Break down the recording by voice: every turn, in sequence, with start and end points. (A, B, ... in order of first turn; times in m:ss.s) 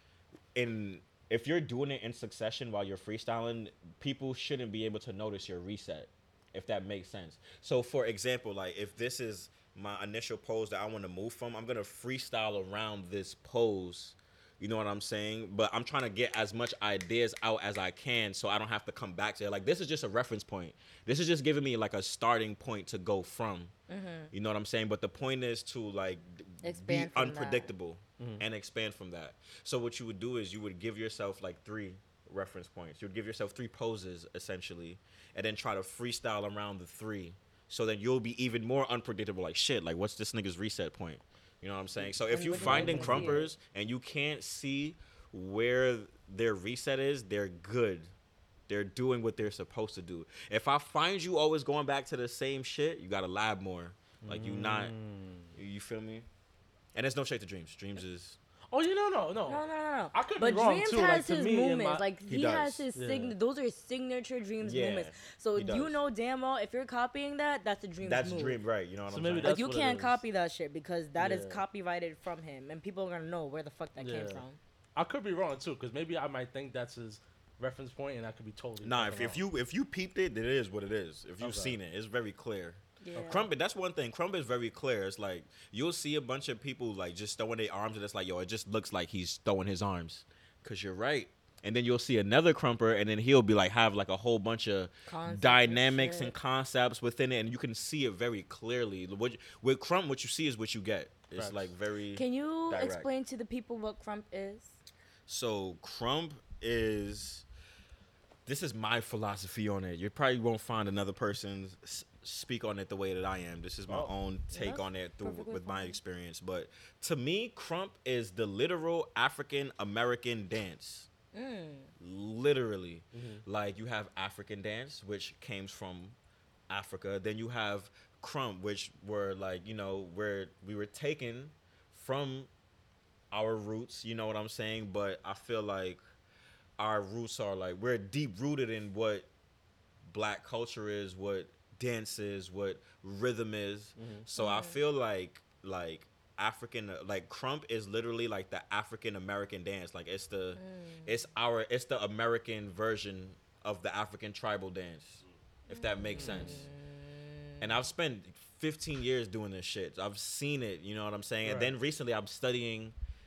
0:00.6-0:23.7 A
0:23.9-0:24.3 B
0:24.3-0:48.1 A
0:26.6-0:27.7 B
0:28.2-0:28.4 C
0:42.2-0:43.5 B
0:42.6-0:43.4 C
0:48.7-0:54.9 A
0:54.2-0:55.5 C
0:55.6-0:56.3 A
0:57.0-0:58.4 A
0:58.7-1:02.0 C
0:59.5-1:08.6 B
1:02.3-1:02.9 A
1:03.0-1:03.3 C
1:04.6-1:06.0 A
1:08.0-1:09.6 A
1:09.1-1:10.2 C
1:09.4-1:14.6 B
1:11.2-1:11.6 C
1:14.0-1:14.4 C
1:15.0-1:19.4 C
1:18.8-1:43.1 A
1:21.4-1:21.8 C
1:23.0-1:23.5 B
1:35.1-1:36.3 B
1:41.3-1:41.7 C
1:42.2-1:44.8 B
1:45.3-1:47.4 A
1:48.4-2:01.1 A
1:53.9-1:54.1 C
1:54.5-1:56.0 B
2:01.3-2:01.9 B
2:02.0-2:06.2 A
2:03.1-2:03.4 C
2:06.7-2:12.5 A
2:13.3-2:16.0 A
2:16.8-2:19.3 A
2:20.0-2:36.7 A
2:24.0-2:24.2 C
2:24.4-2:24.8 B
2:30.6-2:31.2 B
2:35.7-2:37.6 B
2:36.2-2:36.6 C
2:37.6-2:43.0 A
2:41.4-2:41.7 C